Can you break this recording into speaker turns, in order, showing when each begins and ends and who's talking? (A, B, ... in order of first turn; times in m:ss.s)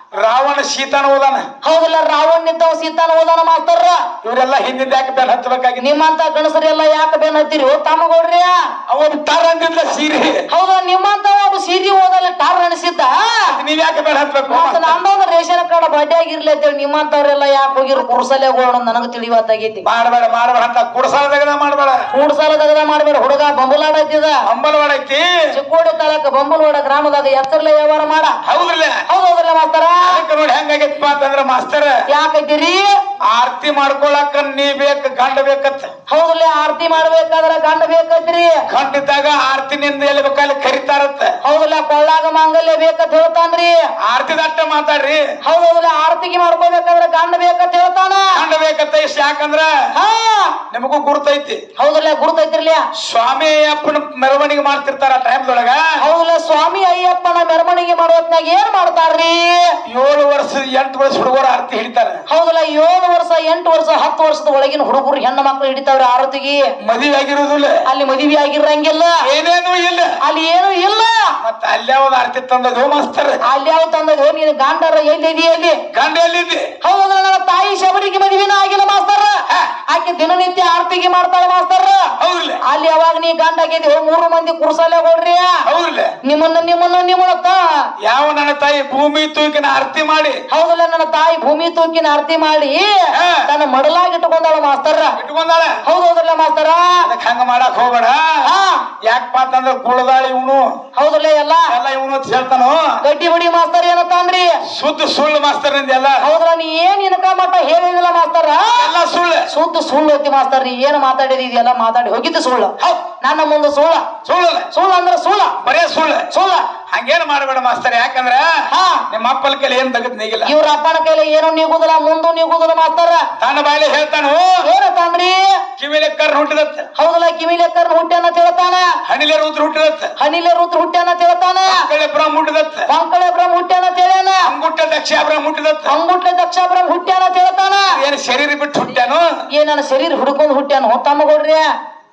0:00.1-0:01.5 A
0:01.6-0:04.1 B
0:04.2-0:05.9 A
0:05.8-0:08.6 B
0:08.9-0:10.4 A
0:10.5-0:13.6 B
0:13.4-0:15.0 A
0:14.5-0:19.8 B
0:19.8-0:22.0 A
0:22.1-0:24.4 B
0:24.4-0:25.4 A
0:25.5-0:28.4 B
0:28.4-0:29.0 A
0:29.1-0:30.2 B
0:30.0-0:32.0 A
0:32.1-0:32.9 B
0:33.2-0:35.9 A
0:36.1-0:38.6 B
0:38.7-0:41.3 A
0:41.4-0:43.8 B
0:44.0-0:45.2 A
0:45.4-0:48.4 B
0:48.3-0:49.7 A
0:49.9-0:50.6 B
0:50.7-0:51.6 A
0:51.8-0:52.8 B
0:53.0-0:55.8 A
0:56.0-0:59.8 B
0:59.8-1:02.2 A
1:02.3-1:06.7 B
1:06.8-1:07.8 A
1:07.8-1:09.2 B
1:09.2-1:10.2 A
1:10.2-1:11.3 B
1:11.4-1:13.4 A
1:13.4-1:15.8 B
1:15.9-1:16.7 A
1:16.8-1:22.1 B
1:22.2-1:22.6 A
1:22.6-1:25.6 B
1:25.6-1:26.1 A
1:26.2-1:27.8 B
1:28.0-1:30.4 A
1:30.5-1:35.2 B
1:33.1-1:33.4 A
1:35.2-1:35.8 A
1:35.8-1:37.0 B
1:37.0-1:38.5 A
1:38.4-1:38.9 B
1:39.0-1:40.8 A
1:40.9-1:41.7 B
1:41.7-1:43.0 A
1:43.0-1:44.6 B
1:44.7-1:46.2 A
1:46.2-1:48.9 B
1:48.7-1:49.5 A
1:49.5-1:54.0 B
1:54.2-1:54.7 A
1:54.7-1:55.6 B
1:55.6-1:56.3 A
1:56.3-1:56.7 B
1:56.9-2:00.5 A
1:58.7-1:59.0 B
2:00.4-2:03.3 B
2:03.4-2:04.6 A
2:04.6-2:05.5 B
2:05.8-2:06.9 A
2:07.0-2:08.9 B
2:09.0-2:10.1 A
2:10.2-2:11.9 B
2:11.6-2:12.9 A
2:12.9-2:14.5 B
2:14.4-2:16.0 A
2:15.9-2:18.0 B
2:17.9-2:19.2 A
2:19.5-2:21.6 B